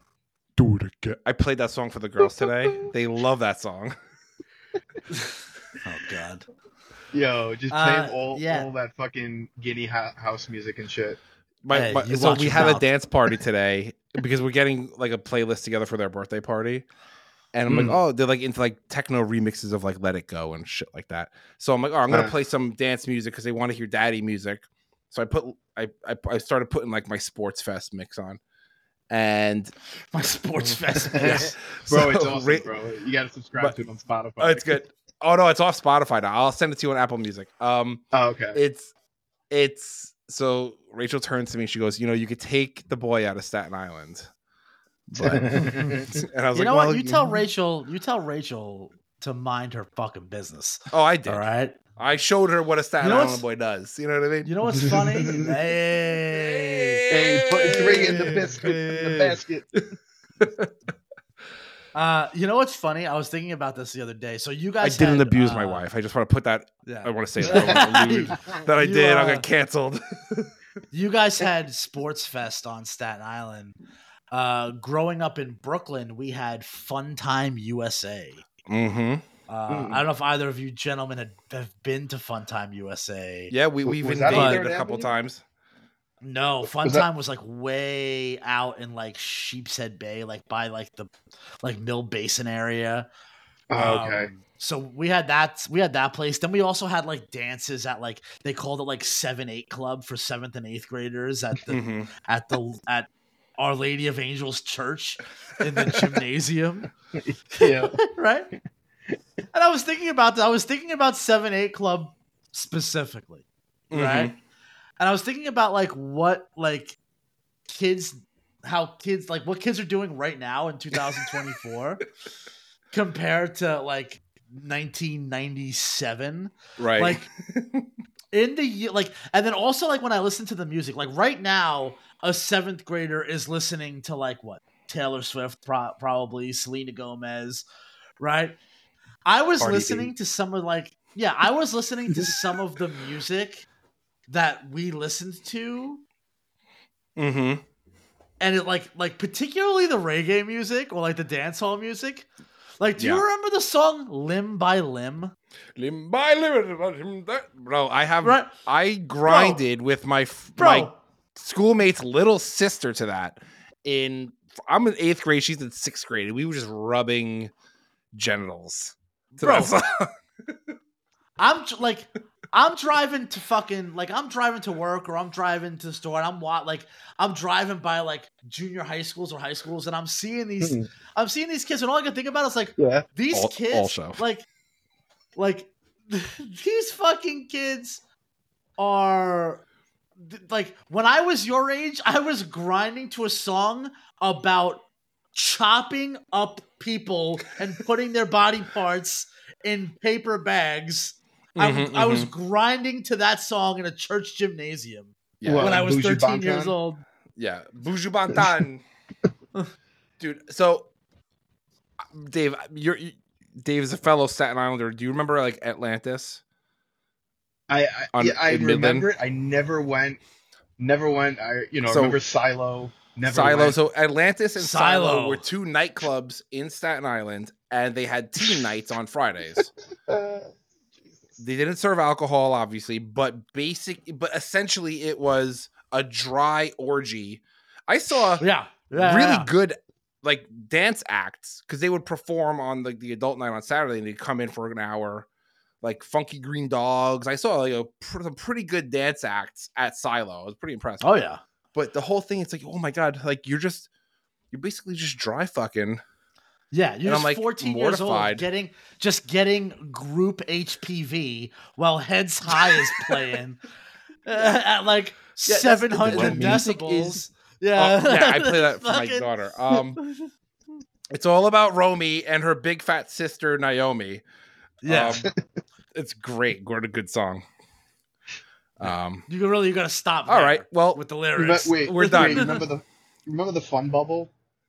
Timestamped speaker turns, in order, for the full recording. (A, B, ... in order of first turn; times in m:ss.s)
0:00.6-0:04.0 A
0:05.8-0:06.5 B
0:07.1-0:11.2 C
0:07.7-0:08.7 B
0:11.6-0:16.9 A
0:11.7-0:12.9 B
0:17.5-0:28.4 A
0:17.7-0:18.0 C
0:22.1-0:22.3 C
0:29.1-0:29.7 A
0:30.1-0:31.5 B
0:31.2-0:34.8 C
0:31.2-0:32.7 A
0:34.4-0:38.9 A
0:38.1-0:38.6 C
0:39.5-0:44.3 A
0:45.1-0:51.8 B
0:45.2-0:47.4 A
0:45.3-0:46.2 C
0:50.9-0:51.4 A
0:52.0-0:55.3 A
0:53.0-0:53.4 B
0:54.4-0:59.4 B
0:54.8-0:55.5 C
0:56.4-0:58.5 A
0:57.1-0:59.7 C
1:00.4-1:00.7 A
1:01.9-1:05.8 B
1:04.8-1:10.5 A
1:06.8-1:09.4 B
1:07.4-1:08.1 C
1:10.9-1:13.7 B
1:14.3-1:18.5 B
1:18.7-1:19.2 A
1:19.5-1:23.5 B
1:19.7-1:20.0 C
1:23.5-1:25.4 A
1:23.9-1:25.1 C
1:24.3-1:24.6 B
1:26.2-1:33.1 B
1:26.8-1:27.1 C
1:33.7-1:34.3 C
1:33.7-1:46.9 B
1:41.7-1:42.1 A
1:47.2-1:48.0 C
1:47.6-1:48.5 B
1:49.5-1:54.3 B
1:53.9-1:54.4 A
1:55.0-1:57.0 B
1:57.7-2:02.0 B
2:02.9-2:07.3 B
2:06.8-2:07.9 A
2:08.3-2:17.6 B
2:18.2-2:18.6 B
2:19.2-2:23.6 B
2:19.6-2:20.1 C
2:24.3-2:26.0 B
2:27.2-2:27.6 A
2:28.4-2:32.3 B
2:32.8-2:35.3 B
2:33.0-2:33.3 A
2:35.8-2:47.5 A
2:38.2-2:38.5 B
2:39.2-2:39.6 B
2:40.6-2:41.0 B
2:48.1-2:50.6 A
2:49.4-2:49.7 B
2:51.4-3:04.4 B
3:00.6-3:00.9 C
3:02.8-3:03.0 C
3:03.3-3:04.2 A
3:05.4-3:08.0 B
3:08.8-3:09.6 B
3:10.2-3:27.0 B
3:21.6-3:22.3 A
3:25.4-3:25.8 A
3:25.4-3:26.7 C
3:27.4-3:28.8 A
3:30.2-3:30.9 A
3:32.0-3:36.4 A
3:37.7-3:40.2 C
3:38.1-3:39.1 A
3:40.8-3:43.8 C
3:41.9-3:42.2 A
3:43.3-3:49.7 A
3:44.6-3:45.4 B
3:50.1-3:50.5 C
3:51.4-4:05.3 A
3:58.4-3:59.5 B
4:05.8-4:11.2 A
4:11.0-4:11.4 B
4:11.7-4:13.9 A
4:14.5-4:16.0 A
4:16.7-4:23.6 B
4:17.1-4:18.4 A
4:24.2-4:30.3 B
4:25.5-4:27.2 A
4:26.0-4:26.6 C
4:27.8-4:30.0 A
4:31.1-4:34.2 A
4:34.8-4:35.3 B
4:34.9-4:35.3 A
4:35.9-4:37.4 A
4:38.8-4:39.3 A
4:39.3-4:42.6 B
4:40.3-4:41.0 A
4:41.4-4:44.3 C
4:41.8-4:42.6 A